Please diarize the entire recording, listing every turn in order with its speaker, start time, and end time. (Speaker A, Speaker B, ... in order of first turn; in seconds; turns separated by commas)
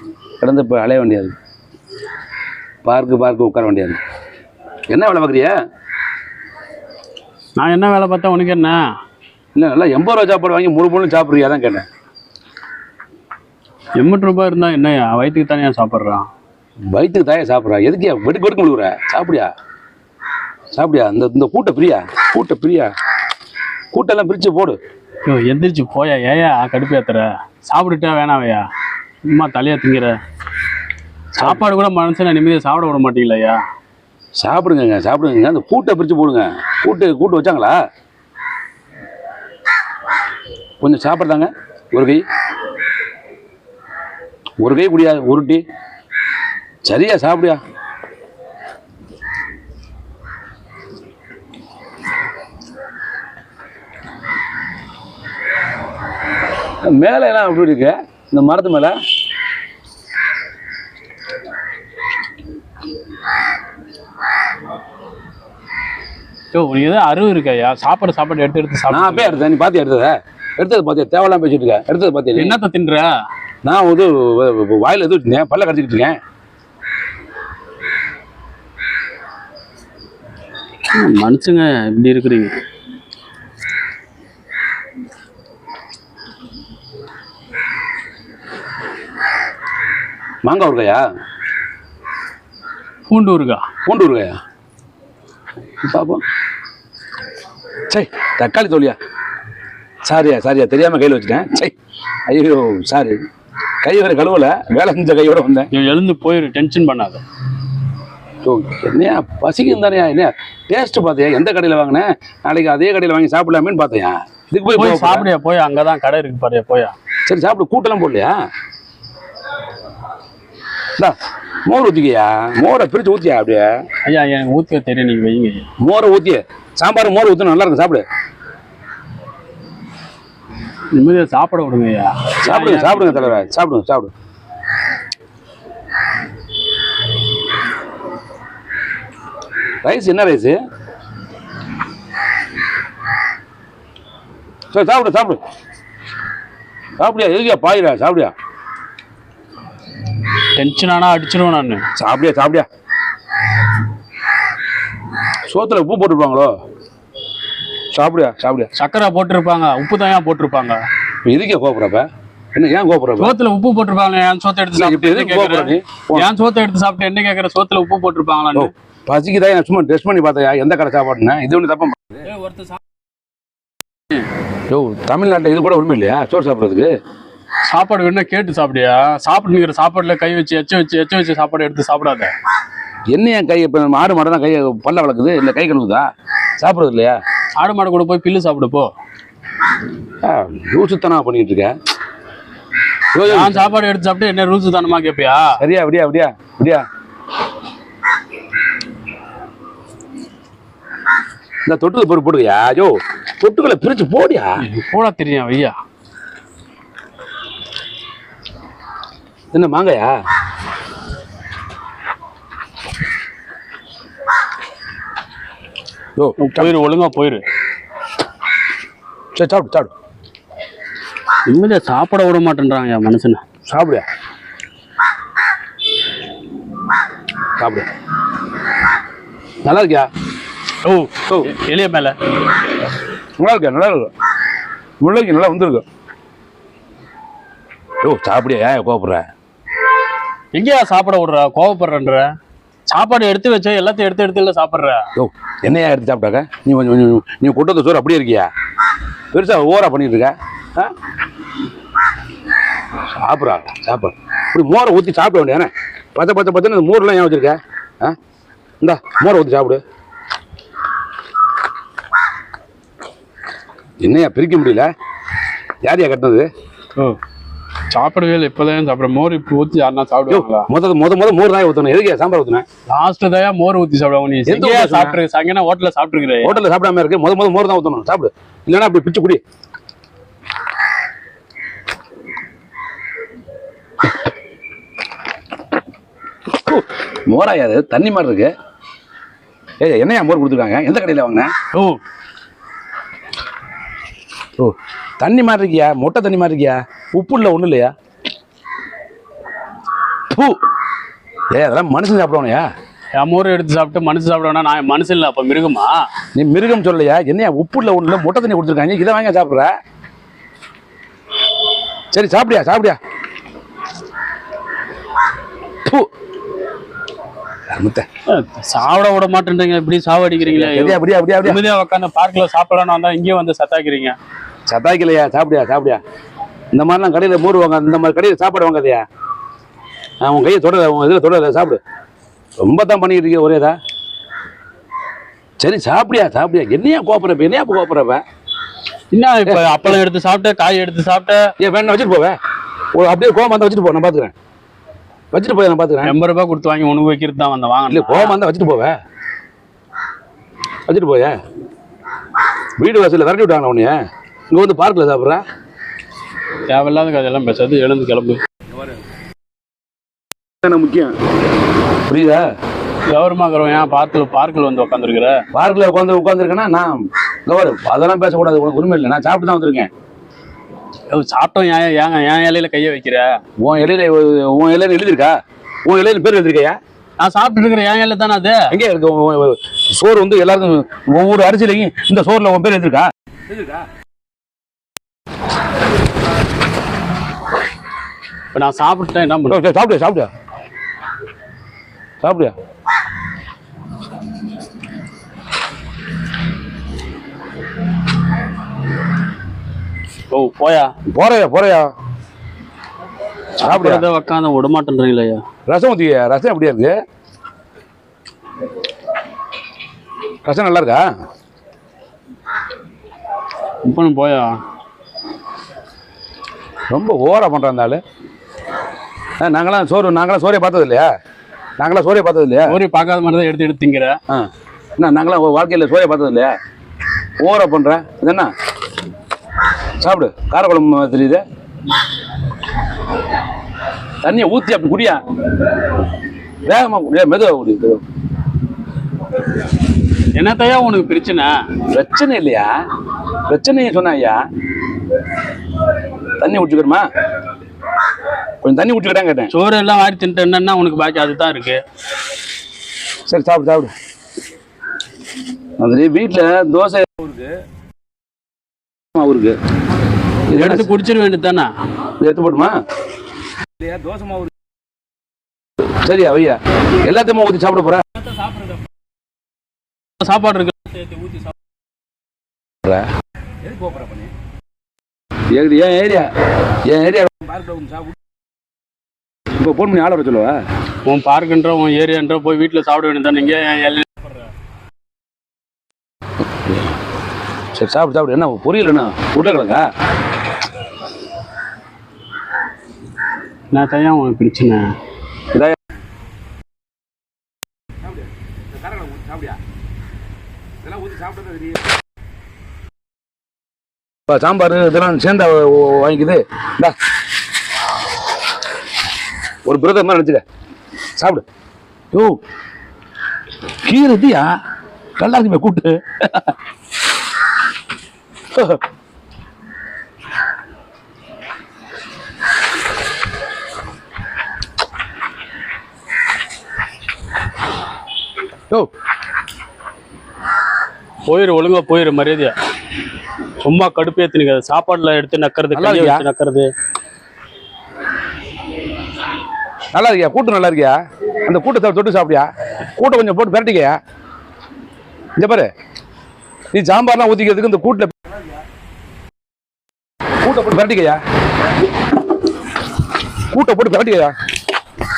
Speaker A: 0.4-1.4, Speaker A: 2.8-4.0, Speaker A: 4.9-5.5, Speaker B: 7.6-8.8, Speaker A: 9.6-11.9, Speaker B: 14.0-16.3, Speaker A: 16.9-19.5, Speaker A: 20.7-22.9, Speaker A: 23.9-24.8, Speaker B: 25.2-28.7, Speaker B: 29.3-30.1, Speaker B: 31.3-33.6, Speaker A: 34.4-37.8, Speaker A: 40.8-42.2, Speaker A: 44.6-45.6, Speaker A: 46.9-47.6, Speaker A: 56.9-59.0, Speaker B: 66.5-69.4, Speaker A: 68.9-72.6, Speaker B: 72.4-73.1, Speaker A: 73.6-76.2, Speaker B: 80.9-82.5, Speaker A: 90.4-91.0, Speaker B: 93.1-93.7, Speaker A: 93.9-94.4, Speaker A: 95.8-96.2, Speaker A: 97.9-99.0, Speaker A: 100.0-101.7, Speaker A: 102.3-103.2, Speaker A: 103.8-105.7, Speaker B: 105.7-107.2, Speaker A: 108.4-115.3, Speaker B: 114.8-117.0, Speaker A: 117.3-118.3, Speaker A: 121.7-123.8, Speaker B: 124.0-125.7, Speaker A: 125.8-128.0, Speaker B: 130.9-133.5, Speaker A: 132.4-134.1, Speaker A: 139.8-140.6, Speaker A: 144.7-145.4, Speaker A: 147.0-148.3, Speaker B: 150.6-151.8, Speaker A: 152.0-152.7, Speaker A: 155.5-156.5, Speaker A: 157.9-158.7, Speaker B: 158.8-160.8, Speaker A: 161.2-163.3, Speaker B: 163.2-168.7, Speaker A: 164.8-166.3, Speaker A: 168.6-172.2, Speaker B: 172.2-172.8, Speaker A: 174.7-176.9, Speaker B: 177.7-182.3, Speaker A: 183.1-186.1, Speaker A: 186.6-187.2, Speaker B: 187.6-188.9, Speaker A: 190.2-191.7, Speaker A: 193.2-193.7, Speaker B: 193.2-195.6, Speaker A: 195.6-196.8, Speaker A: 201.7-204.5, Speaker B: 204.6-205.7, Speaker A: 209.5-210.2, Speaker A: 216.2-216.7, Speaker B: 216.4-217.4, Speaker A: 219.3-219.9, Speaker B: 221.5-223.4, Speaker A: 223.7-224.1, Speaker A: 227.6-227.9, Speaker A: 229.6-230.1, Speaker B: 230.8-232.2, Speaker A: 233.4-234.1, Speaker A: 235.0-235.8, Speaker A: 238.0-239.2, Speaker B: 240.5-242.3, Speaker B: 242.9-245.1, Speaker A: 245.2-248.5, Speaker A: 249.3-250.9, Speaker A: 253.2-258.2, Speaker A: 258.8-259.8, Speaker A: 264.0-264.9, Speaker A: 265.8-266.5, Speaker B: 267.9-270.7, Speaker A: 270.3-272.7, Speaker B: 272.9-276.6, Speaker A: 274.5-275.2, Speaker A: 276.4-279.4, Speaker A: 286.5-288.5, Speaker A: 289.8-291.5, Speaker B: 291.7-292.0, Speaker A: 294.6-297.9, Speaker A: 300.3-300.6, Speaker A: 301.5-302.7, Speaker B: 303.2-306.0, Speaker A: 306.4-309.7, Speaker A: 312.1-313.0, Speaker A: 317.7-318.1, Speaker B: 318.3-324.2, Speaker A: 320.5-321.6, Speaker A: 324.7-326.0, Speaker A: 326.7-329.1, Speaker A: 330.2-331.8, Speaker A: 332.6-333.8, Speaker A: 335.6-338.2, Speaker B: 339.1-341.5, Speaker A: 339.5-340.0, Speaker A: 341.6-342.4, Speaker A: 342.9-344.3, Speaker A: 345.3-346.1, Speaker B: 346.1-348.4, Speaker A: 347.9-348.9, Speaker A: 350.9-351.4, Speaker A: 352.8-354.0, Speaker A: 354.5-355.4, Speaker B: 356.7-358.4, Speaker A: 358.7-359.0, Speaker A: 360.6-361.2, Speaker A: 362.1-362.5, Speaker B: 363.1-365.4, Speaker A: 365.5-369.9, Speaker B: 371.1-373.4, Speaker A: 373.6-376.8, Speaker B: 377.2-378.7, Speaker A: 378.7-383.9, Speaker B: 388.5-389.6, Speaker A: 389.5-390.3, Speaker A: 392.2-392.6, Speaker B: 400.3-400.9, Speaker A: 401.1-401.9, Speaker A: 403.6-404.1, Speaker B: 403.6-405.4, Speaker A: 405.7-406.9, Speaker A: 410.4-411.0, Speaker B: 413.8-414.6, Speaker A: 416.9-418.0, Speaker A: 419.4-421.1, Speaker A: 421.8-422.8, Speaker B: 422.7-424.2, Speaker A: 424.3-426.6, Speaker A: 427.4-428.5, Speaker A: 430.0-431.4, Speaker A: 434.2-435.2, Speaker A: 436.6-438.0, Speaker B: 440.4-441.5, Speaker A: 441.9-442.7, Speaker A: 443.5-444.4, Speaker A: 446.4-447.1, Speaker A: 448.6-449.5, Speaker B: 449.5-451.8, Speaker A: 453.3-453.9, Speaker A: 455.8-457.5, Speaker A: 459.1-459.6, Speaker A: 460.5-460.9, Speaker B: 460.5-461.7, Speaker A: 462.2-462.8, Speaker A: 463.8-464.5, Speaker A: 466.0-468.0, Speaker B: 468.3-468.8, Speaker B: 470.2-471.5, Speaker A: 473.6-474.3, Speaker A: 475.5-476.3, Speaker A: 476.9-478.2, Speaker A: 479.6-480.6, Speaker B: 481.1-484.5, Speaker A: 486.6-486.9, Speaker A: 487.8-489.9, Speaker B: 493.7-494.9, Speaker A: 495.5-495.8, Speaker A: 498.1-499.6, Speaker A: 500.8-501.9, Speaker A: 504.3-506.9, Speaker A: 509.6-510.4, Speaker A: 511.2-511.4, Speaker A: 512.1-512.4, Speaker A: 513.8-514.5, Speaker A: 515.2-516.5, Speaker A: 518.5-518.8, Speaker B: 531.3-532.5, Speaker B: 533.6-536.7, Speaker A: 535.8-536.2, Speaker A: 539.9-544.0, Speaker A: 545.4-545.7, Speaker A: 546.7-548.2, Speaker A: 550.4-551.2, Speaker A: 553.5-554.3